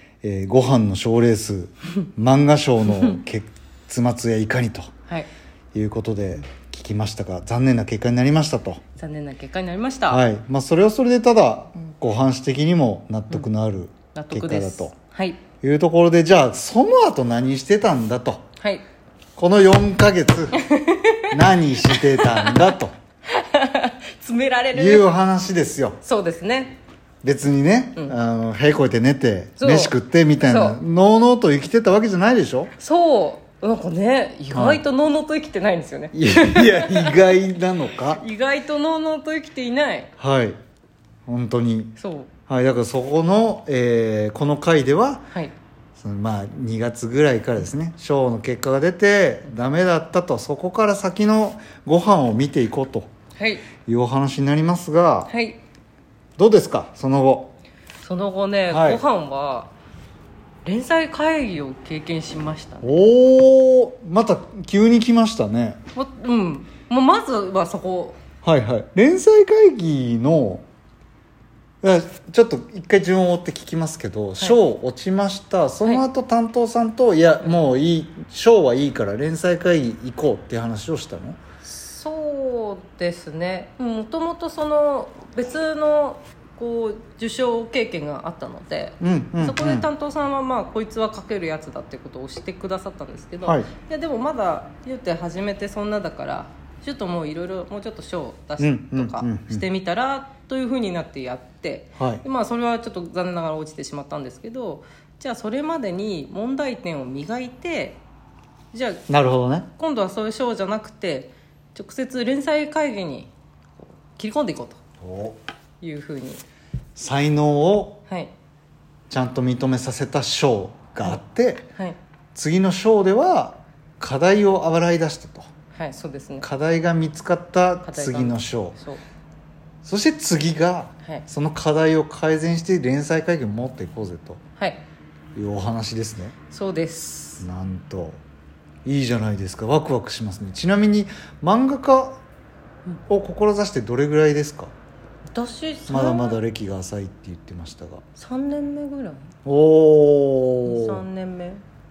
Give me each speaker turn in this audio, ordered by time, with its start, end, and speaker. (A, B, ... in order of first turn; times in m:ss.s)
0:00.2-0:04.9 A
0:05.7-0:08.8 A
0:09.0-0:10.2 B
0:10.1-0:14.9 A
0:14.1-0:15.4 B
0:15.6-0:18.4 A
0:18.6-0:18.8 B
0:19.4-0:20.6 A
0:20.5-0:25.1 B
0:21.3-0:22.9 A
0:24.7-0:26.0 A
0:26.0-0:26.8 B
0:27.2-0:32.7 A
0:29.6-0:30.8 B
0:32.8-0:37.4 B
0:34.5-0:34.8 A
0:36.1-0:38.2 A
0:38.0-0:40.1 B
0:40.2-0:40.6 A
0:41.3-0:42.0 A
0:42.0-0:42.3 B
0:42.5-0:45.3 A
0:46.0-0:53.1 A
0:53.4-0:53.7 B
0:53.8-0:55.3 A
0:55.3-0:55.6 B
0:56.4-0:57.5 A
0:58.0-0:59.7 B
0:58.7-0:59.0 A
1:00.6-1:03.0 B
1:02.8-1:05.8 A
1:05.9-1:08.2 B
1:08.4-1:10.6 A
1:11.8-1:21.4 A
1:21.6-1:48.0 B
1:29.0-1:29.9 A
1:33.4-1:33.7 A
1:38.6-1:39.6 A
1:42.0-1:42.2 A
1:48.7-1:49.0 B
1:49.1-1:49.7 A
1:49.8-1:54.8 B
1:55.0-1:55.4 A
1:55.8-1:56.4 B
1:57.0-1:58.0 A
1:59.1-2:01.7 A
2:02.3-2:05.5 A
2:05.7-2:06.5 B
2:06.4-2:08.8 A
2:07.8-2:09.0 B
2:09.8-2:14.4 A
2:15.3-2:16.4 A
2:16.5-2:17.4 B
2:17.4-2:18.2 A
2:18.8-2:22.2 A
2:23.1-2:24.7 A
2:25.3-2:26.4 B
2:25.9-2:28.0 A
2:28.2-2:29.3 B
2:29.4-2:31.0 A
2:30.6-2:31.6 B